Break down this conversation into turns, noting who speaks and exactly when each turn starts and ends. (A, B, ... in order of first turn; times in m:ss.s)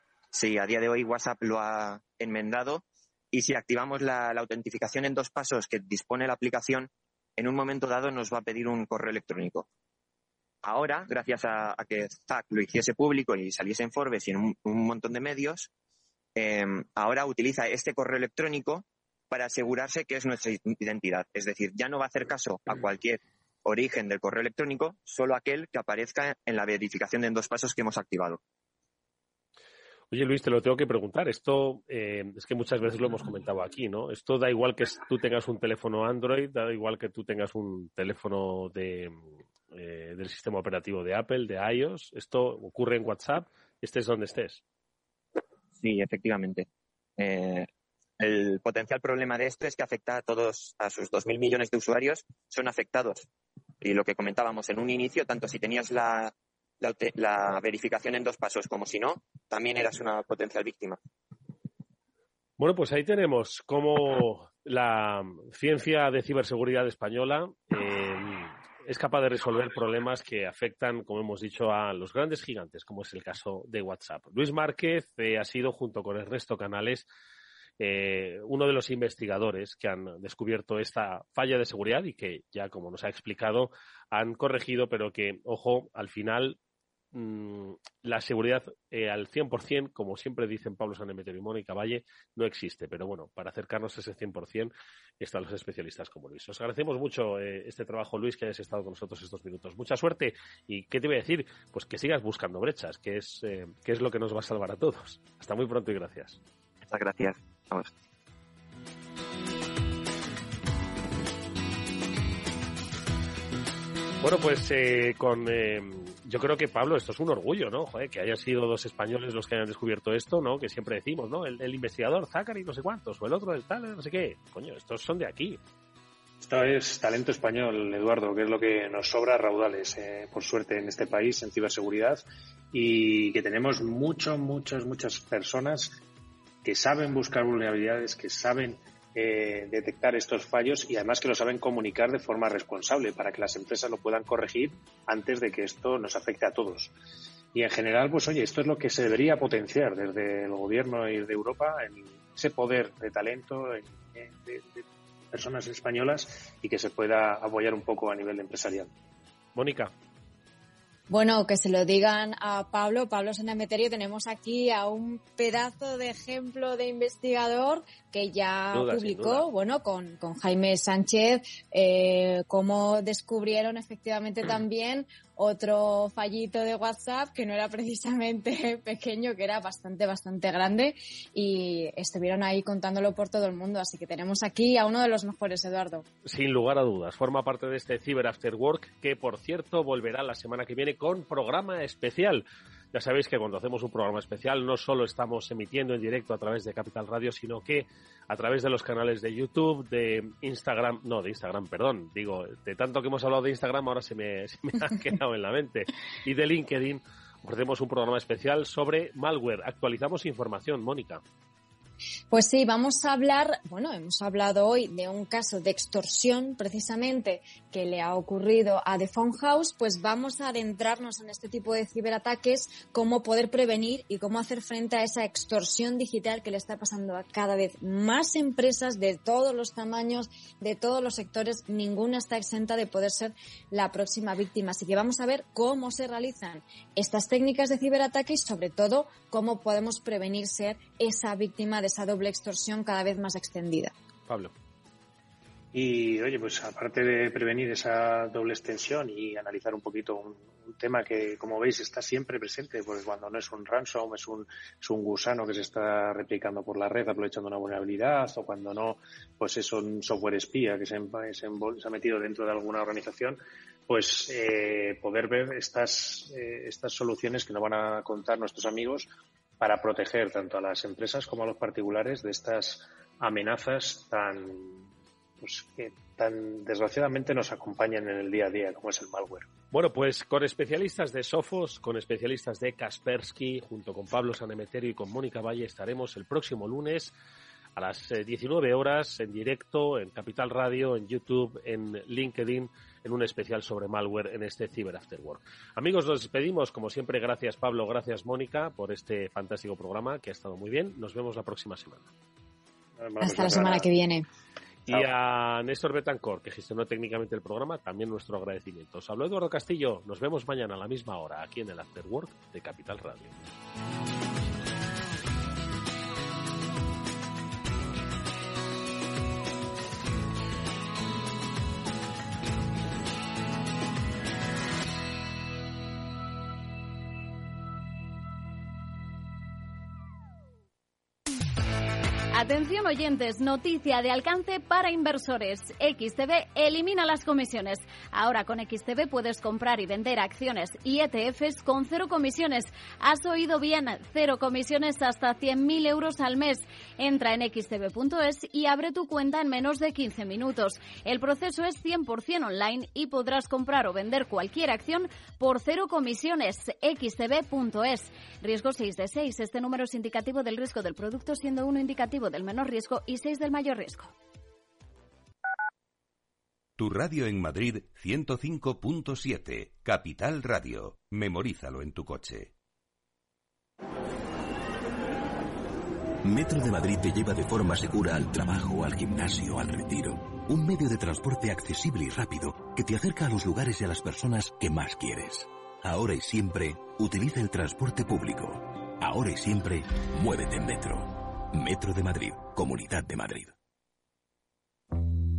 0:00.3-0:09.7 A
0:10.6-0:15.7 A
0:16.4-0:28.4 A
0:30.1-0:44.6 B
0:45.8-0:46.6 A
0:47.2-0:47.7 A
0:48.2-0:53.3 A
0:53.8-1:01.0 A
1:02.6-1:17.1 B
1:17.8-1:26.6 B
1:27.1-1:46.4 B
1:46.9-1:47.9 A
1:54.2-2:05.6 B
2:06.4-2:16.0 C
2:16.6-2:26.9 C
2:27.5-2:38.9 C
2:39.5-2:39.9 B
2:41.1-3:06.0 D
2:48.7-2:49.4 B
3:06.2-3:31.2 B
3:32.3-4:03.9 D
4:05.7-4:39.5 C
4:39.7-4:47.1 B
4:47.8-5:02.1 B
5:03.0-5:03.9 C
5:03.2-5:04.2 D
5:04.9-5:13.4 B
5:32.3-6:04.1 E
6:06.8-6:12.5 F
6:16.2-6:33.5 G